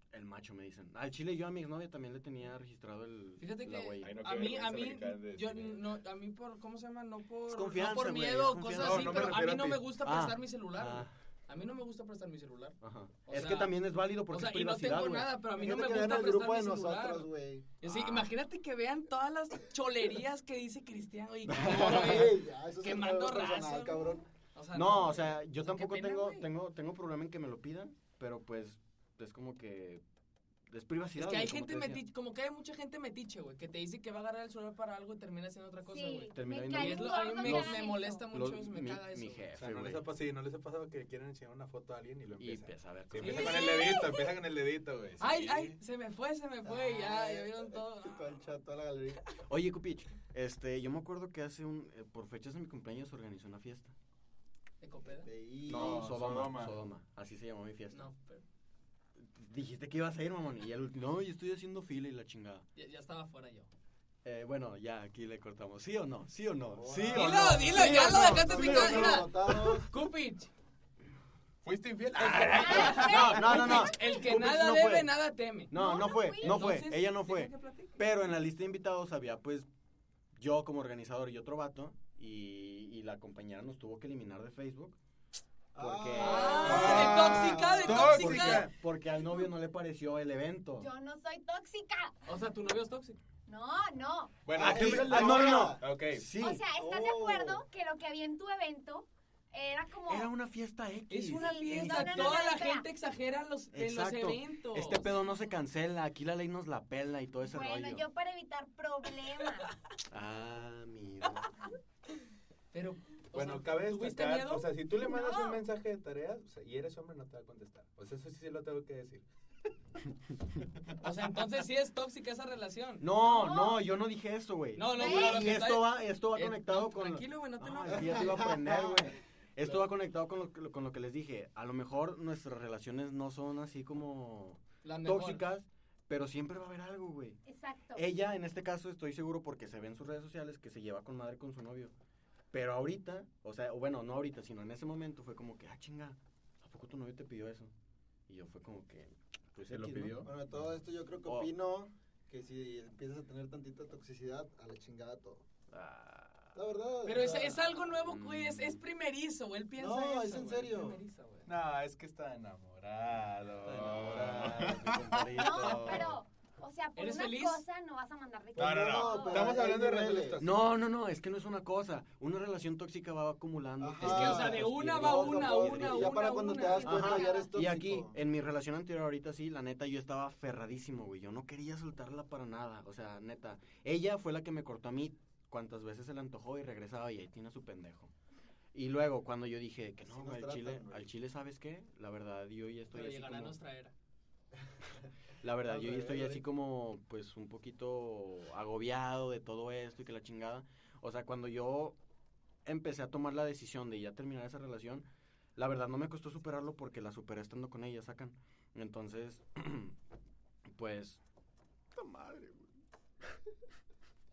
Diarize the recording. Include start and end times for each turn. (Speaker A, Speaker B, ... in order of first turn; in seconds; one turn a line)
Speaker A: 0.1-4.2
Speaker B: 3.4-13.7
Speaker C: 4.0-5.9
Speaker A: 7.5-11.1
Speaker C: 8.7-9.9
Speaker A: 12.8-15.3
Speaker B: 14.3-17.3
Speaker D: 15.6-17.7
Speaker B: 17.8-26.5
Speaker A: 17.9-18.2
Speaker A: 21.5-22.1
Speaker D: 21.6-24.2
Speaker A: 24.7-30.0
Speaker A: 30.7-32.0
Speaker B: 31.2-39.5
Speaker E: 35.9-38.2
Speaker A: 36.3-40.1
Speaker C: 39.6-45.8
Speaker A: 42.4-43.8
Speaker B: 43.2-44.1
Speaker E: 43.5-44.3
Speaker B: 45.2-48.5
Speaker D: 46.6-49.3
Speaker A: 49.5-54.0
Speaker B: 54.8-55.3
Speaker D: 55.0-56.1
Speaker A: 55.7-58.1
Speaker C: 55.7-56.8
Speaker B: 57.9-58.4
Speaker A: 59.2-62.7
Speaker B: 62.8-63.7
Speaker A: 64.2-69.8
Speaker D: 66.8-69.9
Speaker B: 67.1-70.5
Speaker C: 71.6-73.3
Speaker A: 72.2-75.1
Speaker E: 72.5-74.3
Speaker B: 72.6-78.0
Speaker A: 75.7-79.7
Speaker E: 75.7-76.8
Speaker A: 80.3-85.0
Speaker D: 85.7-87.9
Speaker A: 85.8-90.9
Speaker B: 86.2-88.7
Speaker C: 86.4-88.8
Speaker E: 90.8-92.4
Speaker B: 92.3-93.2
Speaker E: 93.5-94.3
Speaker C: 94.5-96.3
Speaker D: 94.6-95.8
Speaker A: 94.6-96.6
Speaker E: 96.3-100.3
Speaker D: 96.7-97.6
Speaker A: 100.1-102.4
Speaker B: 101.1-105.1
Speaker E: 101.4-102.9
Speaker A: 103.7-108.0
Speaker E: 107.4-109.7
Speaker A: 110.1-111.5
Speaker B: 112.7-114.7
Speaker C: 113.3-119.2
Speaker E: 115.0-115.6
Speaker B: 121.0-123.0
Speaker A: 123.0-137.4
Speaker E: 123.1-123.9
Speaker B: 124.8-128.4
Speaker E: 125.0-125.5
Speaker D: 127.9-129.2
Speaker B: 134.8-135.4
Speaker E: 137.5-138.1
Speaker A: 137.9-141.9
Speaker A: 142.5-147.7
Speaker A: 148.3-150.3
Speaker C: 149.7-150.6
Speaker D: 150.2-155.5
Speaker A: 151.2-151.5
Speaker A: 155.7-156.6
Speaker D: 156.5-157.7
Speaker B: 157.1-161.5
Speaker A: 157.9-158.8
Speaker D: 159.8-161.0
Speaker C: 161.5-166.1
Speaker A: 163.6-166.2
Speaker E: 165.3-169.6
Speaker B: 167.0-167.6
Speaker D: 168.6-170.4
Speaker C: 168.6-170.7
Speaker A: 170.4-176.3
Speaker D: 173.8-178.2
Speaker B: 174.0-177.4
Speaker E: 176.4-177.6
Speaker A: 176.8-188.1
Speaker A: 188.7-193.6
Speaker D: 190.1-191.1
Speaker B: 192.9-193.9
Speaker A: 195.4-202.0
Speaker D: 195.7-196.4
Speaker A: 202.7-205.1
Speaker A: 205.6-209.9
Speaker A: 210.7-211.2
Speaker A: 211.9-212.7